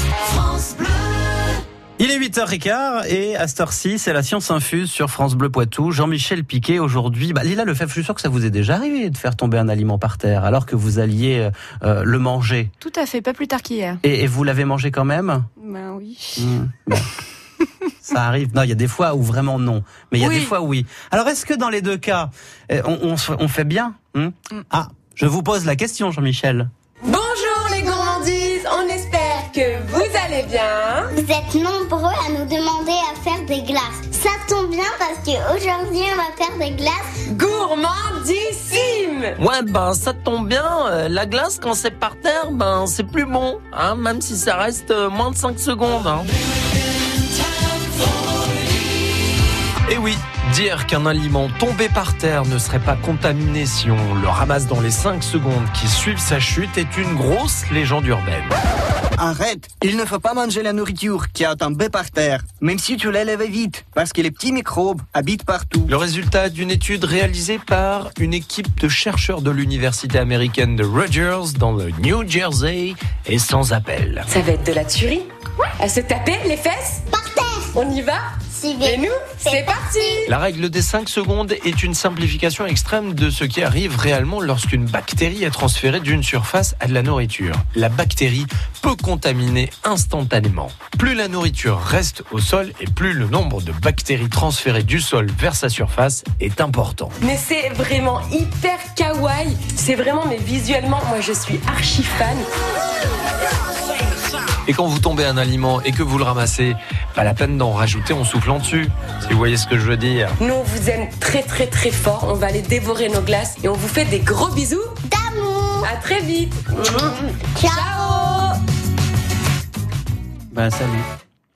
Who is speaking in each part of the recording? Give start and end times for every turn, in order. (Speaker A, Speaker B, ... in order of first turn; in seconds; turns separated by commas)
Speaker A: 2.0-12.7, Speaker B: 12.8-14.0, Speaker A: 14.0-15.5, Speaker B: 15.6-16.4, Speaker A: 16.4-17.1, Speaker A: 18.0-26.7, Speaker B: 20.2-20.5, Speaker C: 27.0-31.1, Speaker D: 31.1-37.2, Speaker C: 37.3-39.4, Speaker E: 39.4-46.3, Speaker E: 49.9-58.5, Speaker F: 59.2-65.9, Speaker E: 65.9-74.2, Speaker C: 74.3-75.3, Speaker C: 75.8-77.0, Speaker D: 77.1-77.8, Speaker C: 77.7-78.2, Speaker D: 78.5-80.3, Speaker C: 78.8-80.3, Speaker E: 80.3-97.2, Speaker C: 97.2-102.5, Speaker E: 104.7-110.4, Speaker C: 110.4-115.0, Speaker D: 115.1-115.9, Speaker C: 115.8-117.1, Speaker D: 116.8-118.4, Speaker C: 117.7-118.6, Speaker A: 120.5-121.0